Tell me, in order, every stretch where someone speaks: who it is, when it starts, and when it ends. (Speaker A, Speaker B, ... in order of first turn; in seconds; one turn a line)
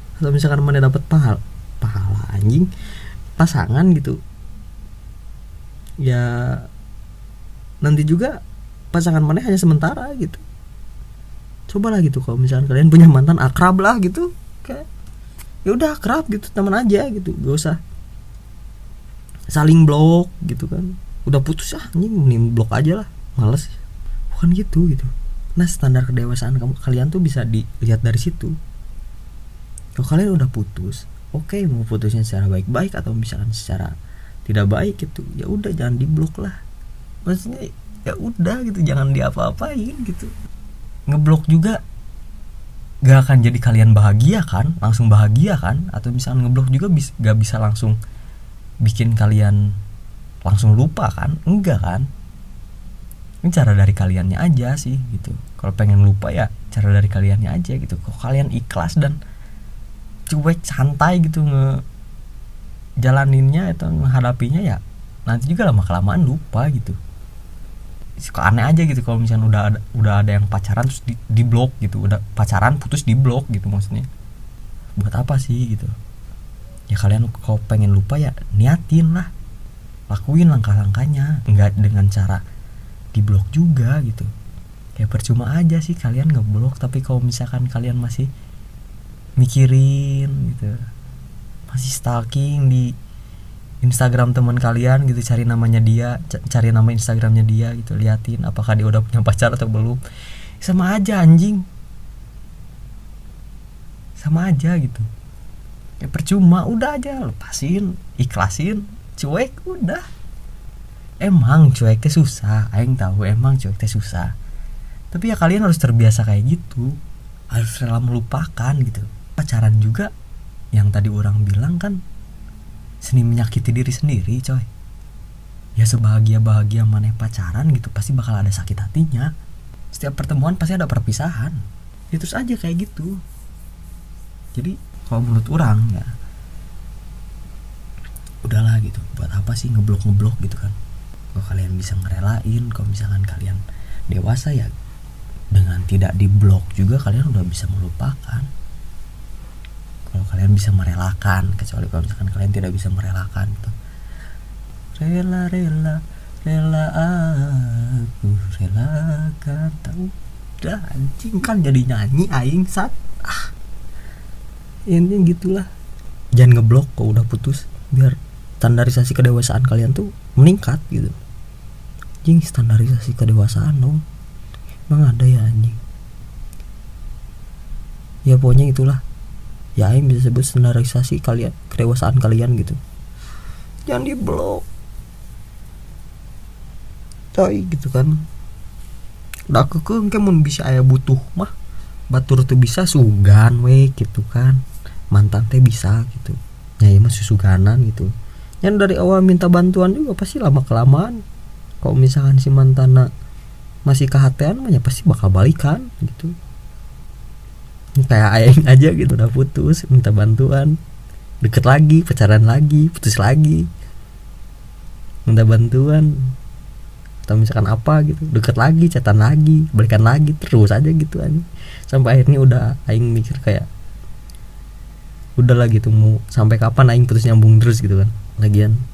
Speaker A: 0.2-2.7
Speaker A: 3.4-4.2
Speaker A: 6.0-6.7
Speaker A: 7.8-8.4
Speaker A: 8.9-10.4
Speaker A: 11.7-14.8
Speaker A: 15.7-17.8
Speaker A: 19.5-23.8
Speaker A: 24.3-28.6
Speaker A: 30.0-33.9
Speaker A: 34.5-36.6
Speaker A: 37.3-40.3
Speaker A: 41.1-41.8
Speaker A: 43.0-48.0
Speaker A: 48.8-49.6
Speaker A: 50.5-52.1
Speaker A: 53.5-59.2
Speaker A: 60.3-61.8
Speaker A: 63.0-67.0
Speaker A: 68.2-74.1
Speaker A: 75.0-75.9
Speaker A: 76.9-79.3
Speaker A: 80.1-82.4
Speaker A: 83.2-84.3
Speaker A: 85.0-88.3
Speaker A: 89.4-90.7
Speaker A: 91.7-92.9
Speaker A: 93.8-100.0
Speaker A: 100.6-101.6
Speaker A: 104.2-105.1
Speaker A: 106.0-110.0
Speaker A: 111.2-114.3
Speaker A: 115.1-117.0
Speaker A: 117.5-120.1
Speaker A: 120.7-122.0
Speaker A: 123.0-124.7
Speaker A: 125.8-129.3
Speaker A: 129.9-131.6
Speaker A: 132.1-133.2
Speaker A: 134.5-136.1
Speaker A: 138.4-140.8
Speaker A: 141.3-144.7
Speaker A: 145.5-148.5
Speaker A: 150.1-153.8
Speaker A: 155.0-163.5
Speaker A: 164.9-165.7
Speaker A: 166.4-171.2
Speaker A: 172.2-174.0
Speaker A: 174.9-175.8
Speaker A: 178.3-179.0
Speaker A: 179.8-182.8
Speaker A: 183.9-184.7
Speaker A: 187.3-188.2
Speaker A: 189.5-191.5
Speaker A: 192.1-194.6
Speaker A: 195.1-198.1
Speaker A: 198.6-201.2
Speaker A: 201.8-203.1
Speaker A: 203.9-206.3
Speaker A: 208.0-210.8
Speaker A: 211.4-213.7
Speaker A: 215.3-216.1
Speaker A: 217.3-223.7
Speaker A: 225.4-228.8